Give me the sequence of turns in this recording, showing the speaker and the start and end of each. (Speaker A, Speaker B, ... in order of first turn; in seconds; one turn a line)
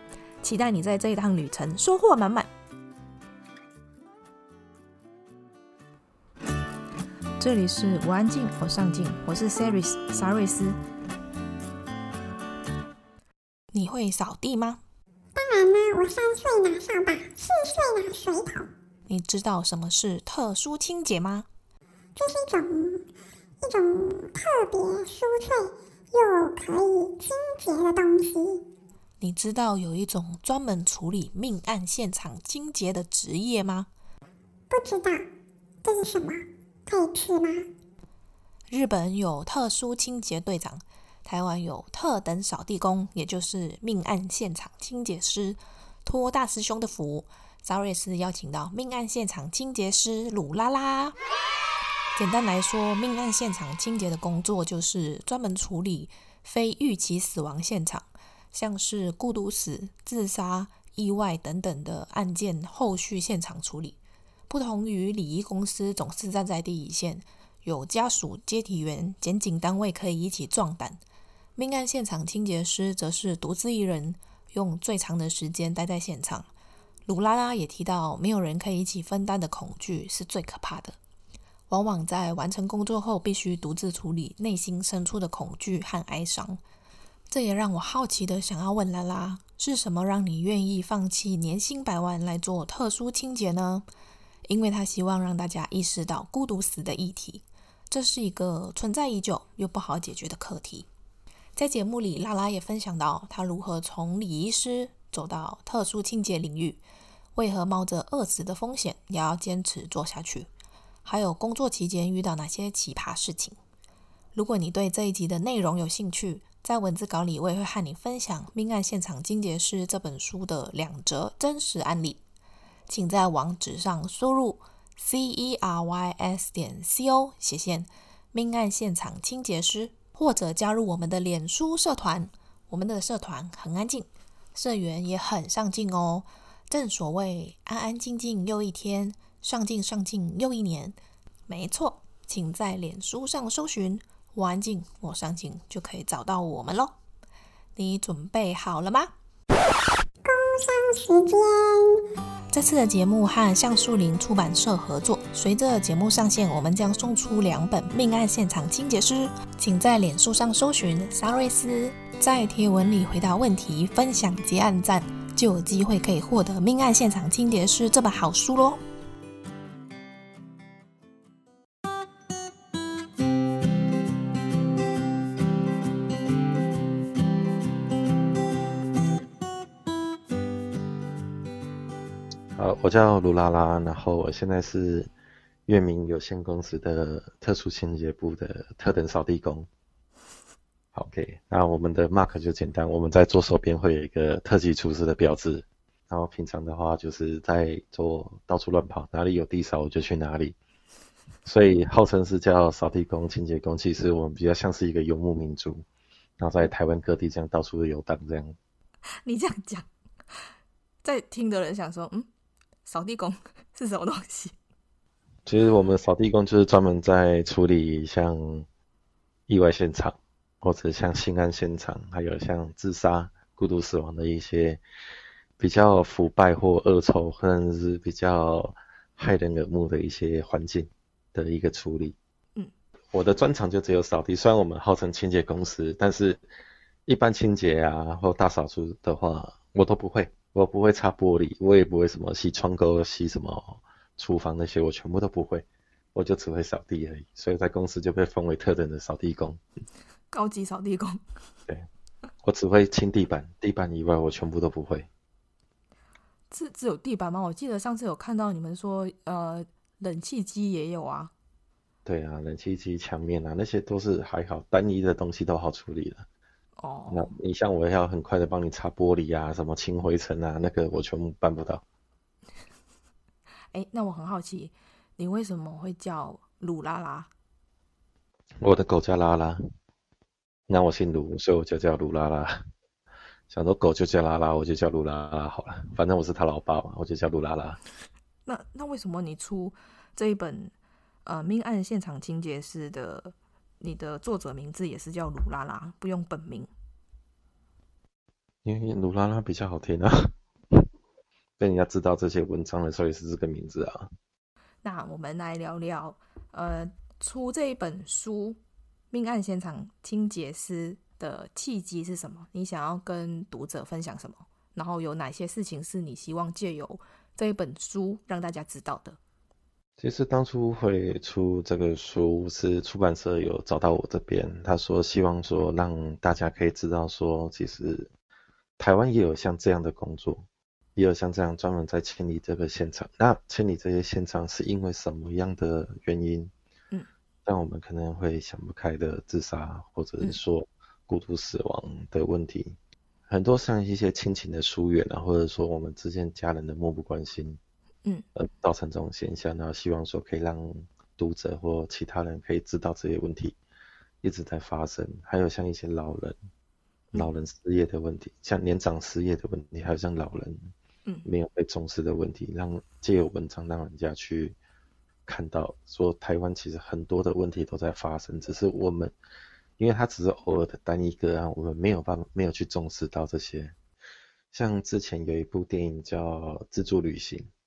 Speaker A: 0.4-2.5
Speaker A: 7.4-10.8
Speaker A: 13.7-14.8
Speaker B: 15.3-18.7
Speaker A: 19.1-21.5
Speaker B: 22.2-23.0
Speaker B: 23.6-28.6
Speaker A: 29.2-33.9
Speaker B: 34.7-35.3
Speaker B: 35.8-37.7
Speaker A: 38.7-51.1
Speaker A: 52.2-64.0
Speaker A: 64.5-71.0
Speaker A: 71.6-76.5
Speaker A: 77.1-81.0
Speaker A: 81.7-86.6
Speaker A: 87.3-93.9
Speaker A: 94.5-100.9
Speaker A: 101.6-106.8
Speaker A: 107.4-110.5
Speaker A: 111.0-113.6
Speaker A: 114.3-122.2
Speaker A: 122.9-141.0
Speaker A: 141.5-146.9
Speaker A: 147.8-149.1
Speaker B: 150.2-152.0
Speaker A: 152.5-168.8
Speaker C: 182.6-185.1
Speaker C: 185.7-189.7
Speaker C: 190.9-200.6
Speaker C: 201.5-205.9
Speaker C: 206.4-208.6
Speaker A: 209.2-209.9
Speaker A: 211.0-212.3
Speaker A: 212.8-214.6
Speaker C: 215.5-218.7
Speaker C: 219.5-224.8
Speaker C: 225.6-232.2
Speaker C: 233.1-236.4
Speaker C: 237.1-249.6
Speaker A: 250.3-251.2
Speaker C: 252.4-255.1
Speaker A: 256.5-261.3
Speaker C: 262.1-266.3
Speaker A: 266.8-267.3
Speaker C: 267.1-271.8
Speaker A: 273.7-277.3
Speaker C: 278.6-279.6
Speaker C: 280.7-282.7
Speaker C: 283.5-287.8
Speaker A: 288.5-290.7
Speaker A: 291.2-296.7
Speaker C: 298.6-300.9
Speaker C: 301.6-304.1
Speaker A: 304.8-308.6
Speaker A: 309.1-319.2
Speaker C: 320.0-328.1
Speaker C: 328.8-336.5
Speaker C: 337.4-342.8
Speaker C: 343.3-347.6
Speaker C: 348.4-353.6
Speaker C: 354.2-356.4
Speaker C: 357.1-360.7
Speaker C: 361.2-364.6
Speaker C: 365.3-369.1
Speaker C: 369.8-373.8
Speaker C: 374.5-377.5